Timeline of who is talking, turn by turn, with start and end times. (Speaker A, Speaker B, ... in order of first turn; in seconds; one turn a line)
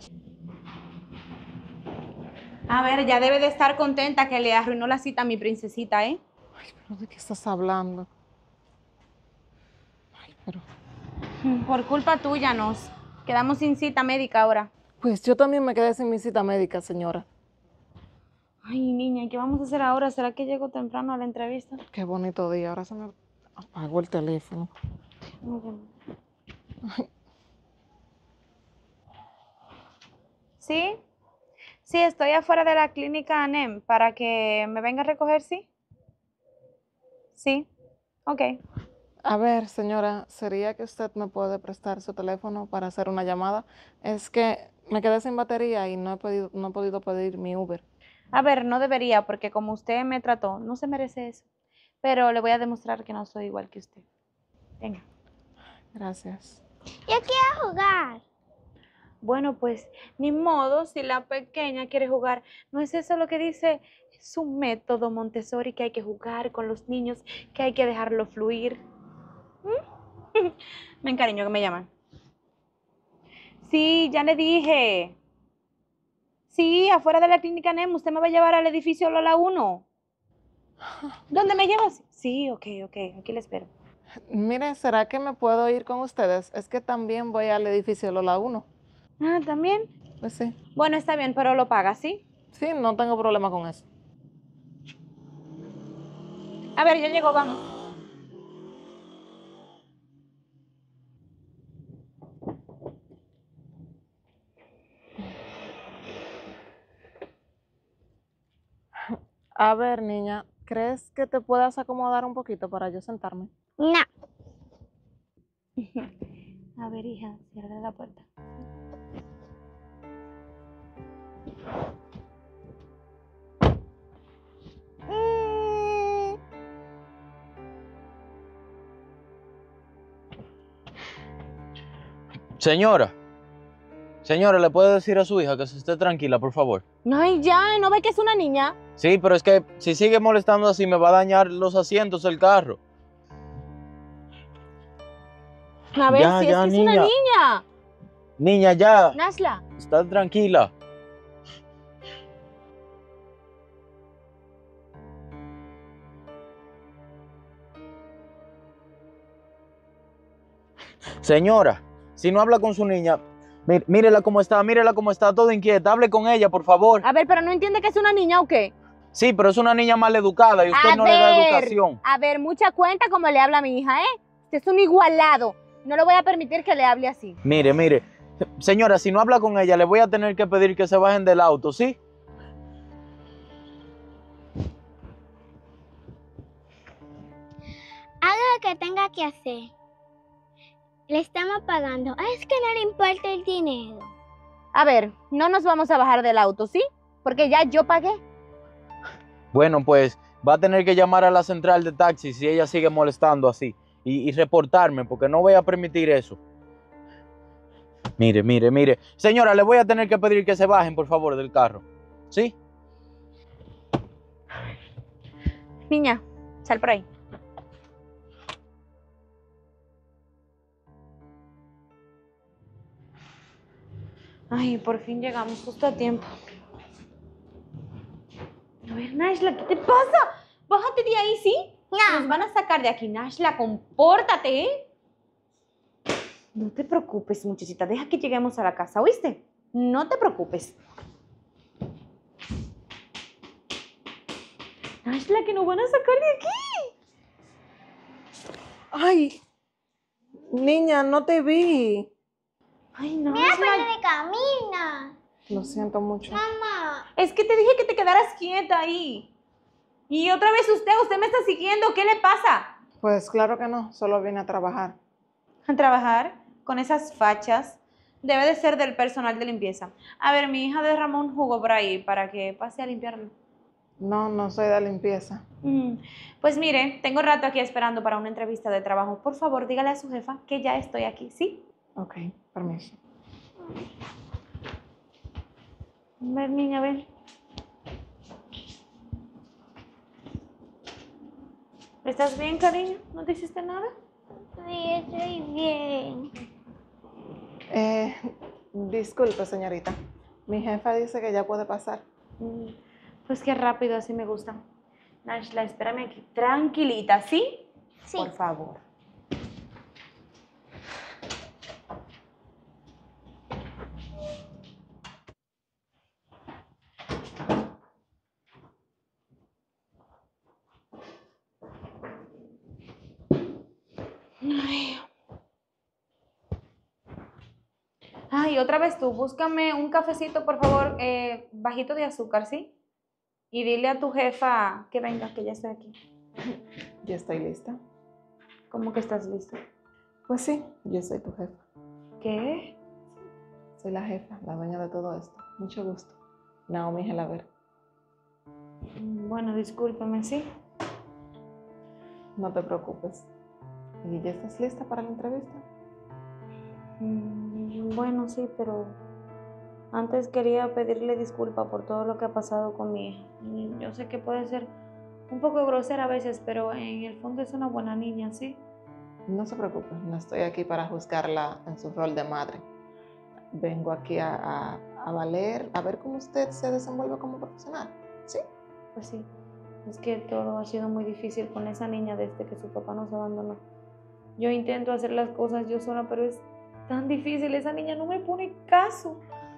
Speaker A: 2.7-6.2
Speaker B: 6.6-8.1
Speaker B: 10.2-10.6
Speaker A: 11.4-14.7
Speaker B: 15.0-17.2
Speaker A: 18.6-21.8
Speaker B: 21.9-24.7
Speaker A: 25.4-25.9
Speaker A: 30.6-31.0
Speaker A: 31.8-35.7
Speaker A: 37.3-37.7
Speaker A: 38.3-38.5
Speaker B: 39.2-47.8
Speaker A: 48.3-51.5
Speaker A: 52.0-54.0
Speaker B: 55.9-56.6
Speaker C: 57.1-58.2
Speaker A: 59.2-68.8
Speaker A: 70.3-71.9
Speaker A: 73.6-75.2
Speaker A: 76.5-79.8
Speaker A: 81.3-83.7
Speaker B: 84.3-88.7
Speaker A: 89.2-89.9
Speaker B: 90.2-90.5
Speaker A: 90.7-92.2
Speaker B: 92.5-93.8
Speaker A: 96.8-97.6
Speaker B: 109.1-113.5
Speaker C: 113.8-114.1
Speaker A: 115.8-116.1
Speaker A: 116.8-118.2
Speaker D: 132.6-133.1
Speaker D: 134.2-136.8
Speaker A: 137.1-138.8
Speaker D: 139.0-142.8
Speaker A: 145.9-147.6
Speaker D: 146.1-147.1
Speaker D: 148.4-149.2
Speaker A: 149.1-149.6
Speaker D: 149.8-150.7
Speaker D: 161.2-167.0
Speaker A: 167.0-168.7
Speaker D: 169.1-172.0
Speaker A: 170.7-177.4
Speaker D: 177.4-178.0
Speaker D: 178.6-182.0
Speaker C: 188.2-189.7
Speaker C: 191.1-194.1
Speaker A: 194.7-198.2
Speaker D: 199.5-206.4
Speaker D: 208.2-212.5
Speaker A: 215.9-217.1
Speaker A: 224.5-226.3
Speaker A: 228.8-234.7
Speaker C: 231.9-232.3
Speaker A: 236.5-240.8
Speaker A: 245.0-246.9
Speaker B: 248.9-249.4
Speaker B: 250.5-252.1
Speaker A: 252.9-253.9
Speaker C: 253.3-255.2
Speaker B: 255.5-256.4
Speaker C: 256.3-257.0
Speaker A: 257.2-259.3
Speaker A: 260.1-262.7
Speaker B: 263.0-265.0
Speaker A: 265.6-273.3
Speaker B: 274.0-275.4
Speaker A: 275.6-281.6
Speaker B: 282.0-282.9
Speaker A: 286.2-287.1
Speaker A: 292.0-293.9
Speaker C: 294.5-296.3
Speaker B: 297.7-299.9
Speaker B: 300.5-302.0
Speaker A: 302.4-304.6
Speaker A: 305.2-308.8
Speaker A: 324.4-325.0
Speaker A: 328.3-332.7
Speaker A: 333.5-335.9
Speaker B: 337.0-337.8
Speaker A: 338.7-339.6
Speaker B: 340.3-341.6
Speaker A: 342.2-342.7
Speaker B: 343.8-346.2
Speaker B: 346.7-347.5
Speaker A: 348.9-350.4
Speaker B: 352.4-353.3
Speaker B: 354.0-355.6
Speaker A: 357.0-359.0
Speaker A: 359.9-364.7
Speaker A: 365.3-368.6
Speaker B: 369.3-372.6
Speaker B: 373.5-378.4
Speaker A: 378.9-379.3
Speaker A: 379.8-383.6
Speaker A: 384.4-389.2